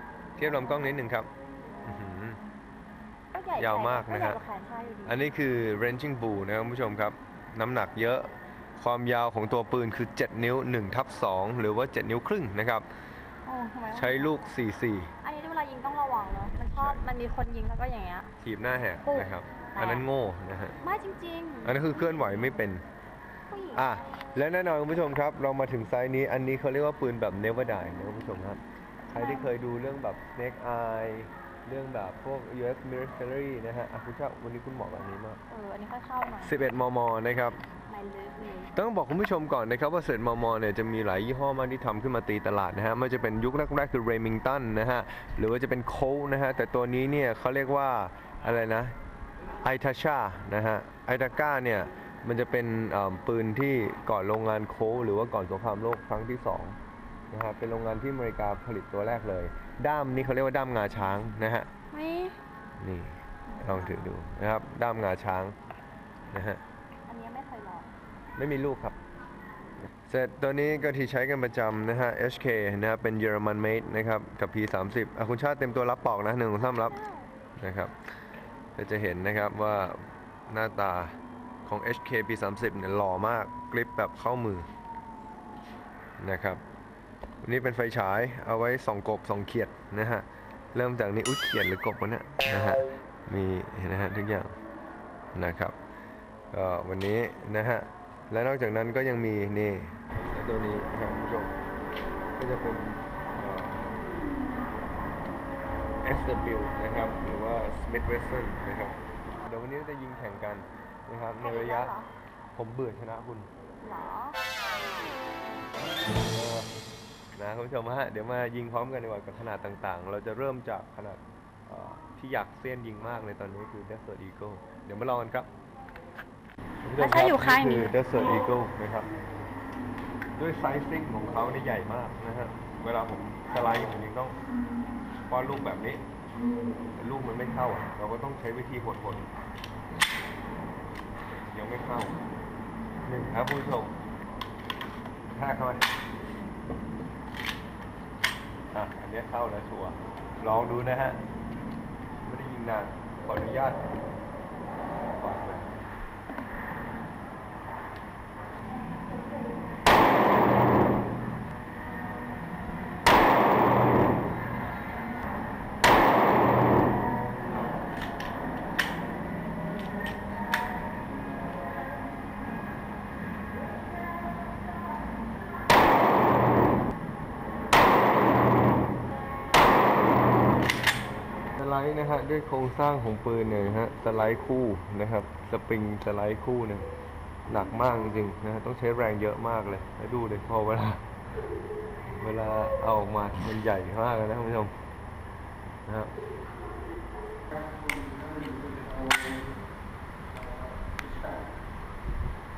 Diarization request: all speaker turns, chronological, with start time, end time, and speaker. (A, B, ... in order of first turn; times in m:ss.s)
0:00.4-0:01.3 A
0:01.8-0:02.4 A
0:03.3-0:05.2 B
0:03.6-0:04.4 A
0:05.0-0:12.8 A
0:13.4-0:14.5 B
0:13.9-0:15.1 A
0:15.2-0:18.3 B
0:16.6-0:17.1 A
0:18.4-0:20.8 A
0:19.0-0:20.0 B
0:20.8-0:21.9 B
0:21.6-0:22.8 A
0:23.5-0:23.9 B
0:23.7-0:35.4 A
0:29.1-0:29.5 B
0:35.5-0:36.5 B
0:36.4-0:37.6 A
0:37.9-0:38.7 B
0:38.7-0:48.9 A
0:49.6-0:56.8 A
0:57.3-1:01.7 A
1:01.9-1:02.4 B
1:02.8-1:05.5 A
1:03.5-1:04.1 B
1:06.3-1:06.6 A
1:07.0-1:07.9 B
1:08.4-1:09.0 A
1:10.0-1:17.0 A
1:16.6-1:17.3 B
1:17.6-1:17.9 A
1:18.8-1:24.7 A
1:26.2-1:26.6 A
1:27.4-1:34.5 A
1:35.3-1:35.8 A
1:36.5-1:41.5 A
1:42.4-1:43.9 A
1:46.0-1:51.9 A
1:51.4-1:52.1 B
1:52.5-1:53.5 A
1:53.8-1:54.4 B
1:56.1-1:56.7 A
1:57.4-2:05.5 A
2:06.8-2:09.1 A
2:07.0-2:07.9 B
2:10.4-2:14.4 A
2:15.3-2:16.0 A
2:17.0-2:19.3 A
2:21.5-2:22.2 A
2:23.0-2:23.9 A
2:25.3-2:25.9 A
2:28.7-2:31.2 A
2:32.2-2:33.8 A
2:35.1-2:35.7 A
3:01.5-3:06.9 A
3:07.5-3:11.0 A
3:12.2-3:14.7 A
3:15.8-3:16.1 A